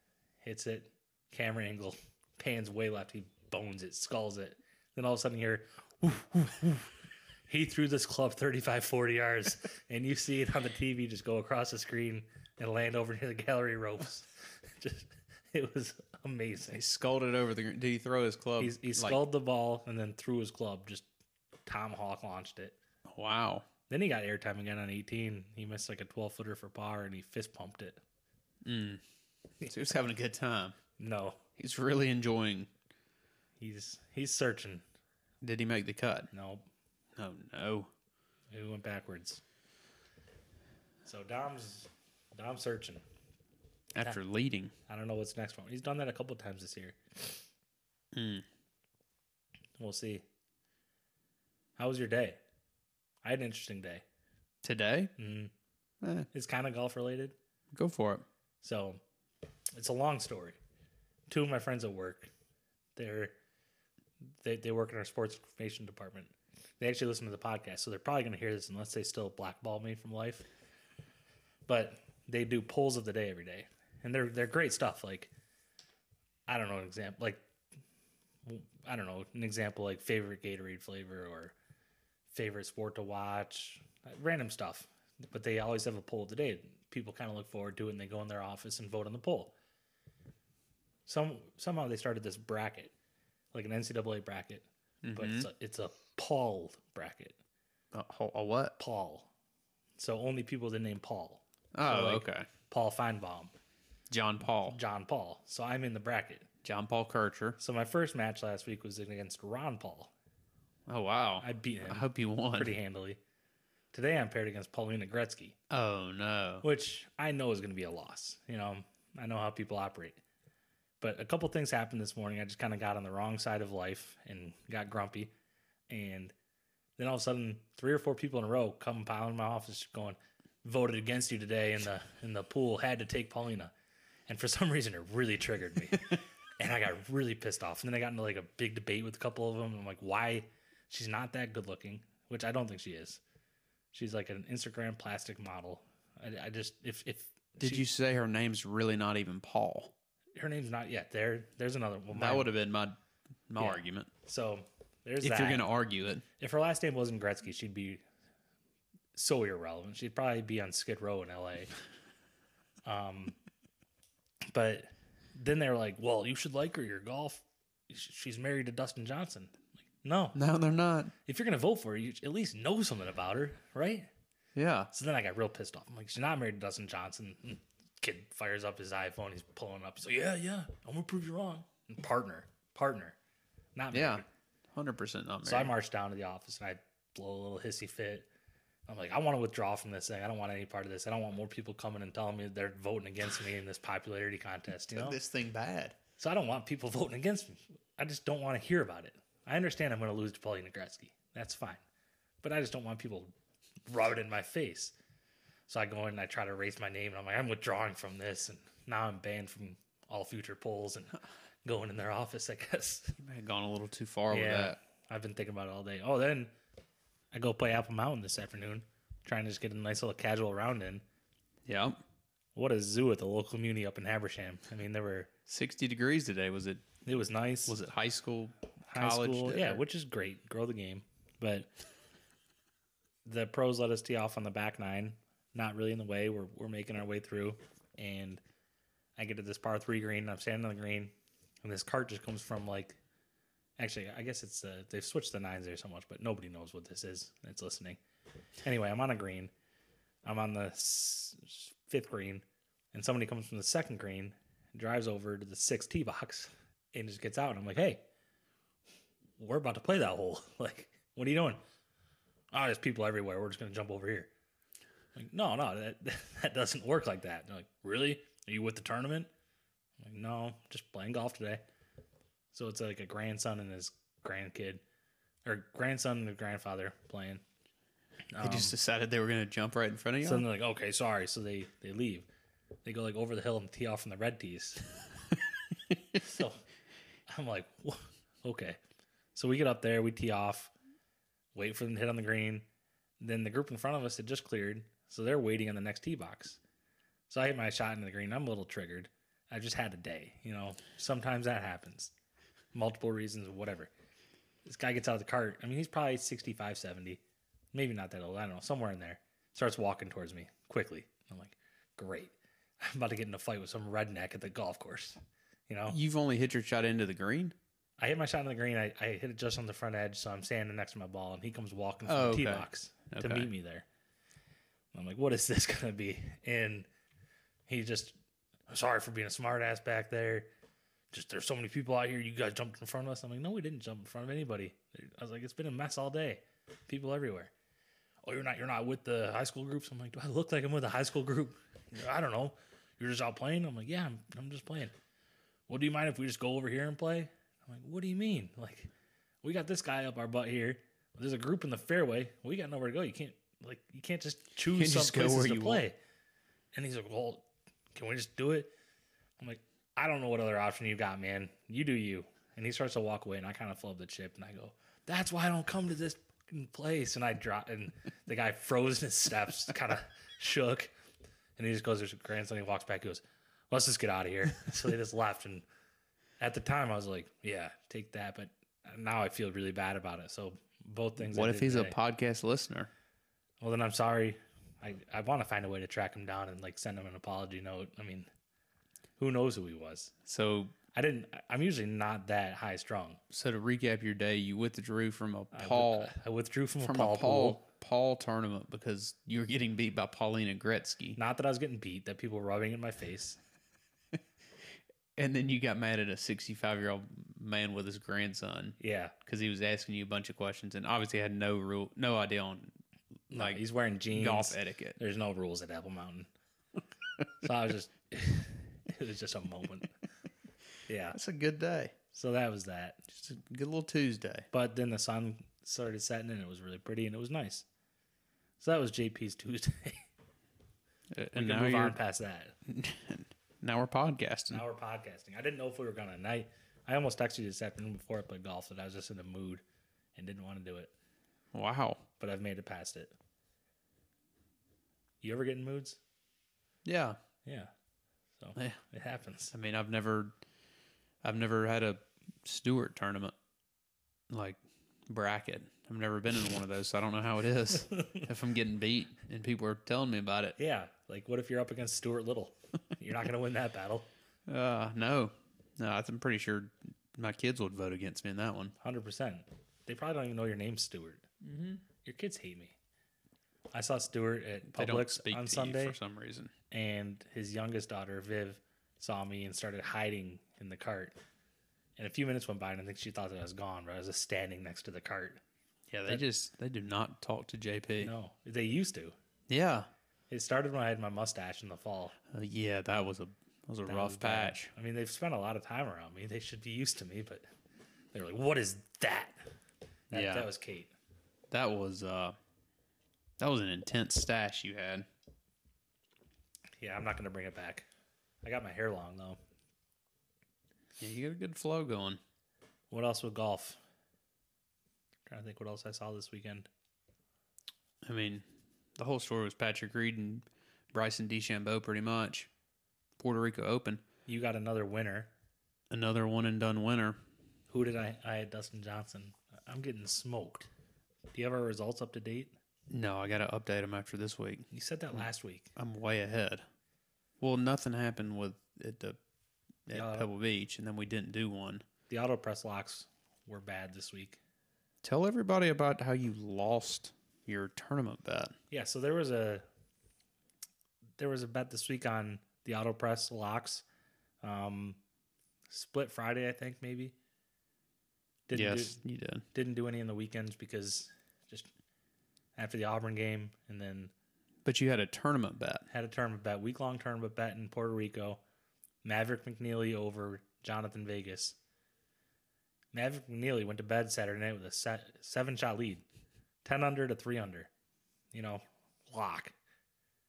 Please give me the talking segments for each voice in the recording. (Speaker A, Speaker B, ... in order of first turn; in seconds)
Speaker A: 0.4-6.9, 7.5-16.8, 18.6-21.1, 21.7-22.8, 23.9-28.0, 31.0-31.4, 33.6-34.8, 36.3-36.7, 38.5-39.4, 41.0-43.0, 44.9-47.4, 49.8-50.2, 51.8-52.4, 53.2-54.0, 55.2-55.5, 56.3-57.4, 58.6-59.0, 59.8-60.6, 61.3-62.3, 63.0-63.4, 64.4-70.5, 71.7-75.3, 76.5-77.5, 78.5-81.5, 82.3-89.6, 91.1-92.9, 93.5-97.4, 98.8-99.3, 100.0-103.5, 104.7-106.5, 107.6-110.1, 111.4-113.2, 113.9-115.6, 116.6-120.2, 121.0-125.3, 125.9-126.3, 127.0-133.7, 134.3-143.2, 143.9-147.9, 150.4-152.5, 153.6-155.7, 156.4-158.0, 159.2-161.7, 162.8-163.4, 164.5-170.4, 171.3-174.1, 174.9-183.2, 183.8-184.3, 185.4-188.3, 188.9-195.2, 196.2-201.8, 202.4-203.3, 203.9-204.9, 205.7-213.2, 214.3-216.5, 217.3-221.0, 222.6-225.3, 227.1-227.8, 228.9-231.7, 233.2-238.4, 239.2-243.0, 243.8-248.0, 248.6-249.5, 250.2-258.1, 259.4-261.6, 262.5-264.3, 265.2-269.3, 270.0-271.6, 272.5-274.8, 275.4-277.4, 278.3-278.8, 280.2-282.3, 282.9-284.9, 286.1-286.6, 287.3-288.8, 289.4-290.7, 291.6-292.7, 293.2-296.6, 297.3-302.1, 302.7-303.9, 304.6-307.2, 307.7-316.0, 318.0-323.9, 324.9-326.9, 327.7-328.2, 328.7-330.5, 331.1-337.5, 338.2-344.9, 345.7-348.9, 349.4-356.0, 356.7-358.7, 359.4-370.9, 371.6-375.7, 376.4-382.0, 383.6-388.3, 389.2-390.1, 390.9-393.2, 395.5-397.6, 401.2-403.4, 408.8-409.1, 413.3-416.3, 417.4-419.9, 420.9-421.2, 422.1-423.0, 424.5-427.6, 428.6-430.0, 431.3-432.6, 434.5-439.6, 440.2-440.9, 442.2-443.1, 445.2-446.0, 447.4-447.7, 448.4-449.5, 457.9-458.2, 460.6-464.1, 468.8-471.3, 471.9-472.8, 473.7-476.0, 476.7-481.2, 482.0-485.4, 488.0-489.1, 490.3-492.2, 493.9-497.4, 498.1-499.4, 500.1-500.9, 506.8-507.9, 508.4-509.4, 512.9-513.8, 515.3-516.7, 524.3-525.3, 527.7-530.7, 531.3-532.5, 534.7-535.7, 539.9-540.3, 542.1-544.4, 548.7-549.6, 551.2-553.8, 554.4-555.0, 555.7-557.1, 558.5-559.0, 559.5-561.7, 562.6-564.1, 565.9-568.4, 569.0-571.6, 572.9-576.0, 576.6-577.7, 578.3-579.5
Speaker B: 16.7-19.2, 23.1-23.7, 28.6-29.0, 29.6-30.8, 31.6-32.7, 35.4-36.3, 37.2-37.9, 43.9-44.7, 48.1-48.5, 54.6-55.1, 56.0-56.3, 57.7-58.2, 95.0-95.5, 97.9-98.8, 101.8-102.5, 104.1-104.8, 106.6-107.6, 110.9-112.7, 115.7-116.7, 147.6-149.9, 152.1-153.0, 153.5-154.1, 155.2-156.2, 170.3-171.1, 174.6-174.9, 183.9-185.7, 194.9-196.0, 213.2-214.8, 221.7-222.0, 225.5-226.8, 227.7-229.8, 278.4-280.5, 315.9-317.6, 322.1-323.5, 354.7-355.9, 381.2-382.9, 390.3-390.7, 393.3-396.1, 396.8-401.2, 405.2-412.7, 413.3-415.0, 421.1-421.9, 423.1-424.5, 431.1-432.0, 432.7-434.6, 441.5-442.0, 446.9-447.2, 449.5-450.4, 451.2-453.3, 454.3-460.6, 464.5-468.8, 474.7-476.5, 485.9-488.1, 489.5-489.9, 492.3-494.7, 500.1-500.5, 501.5-502.4, 503.4-505.1, 511.0-512.2, 518.0-518.4, 519.0-522.5, 523.2-524.0, 525.9-527.2, 532.9-535.2, 535.8-536.6, 537.4-539.2, 539.9-541.8, 545.0-548.5, 558.5-559.5, 564.6-565.9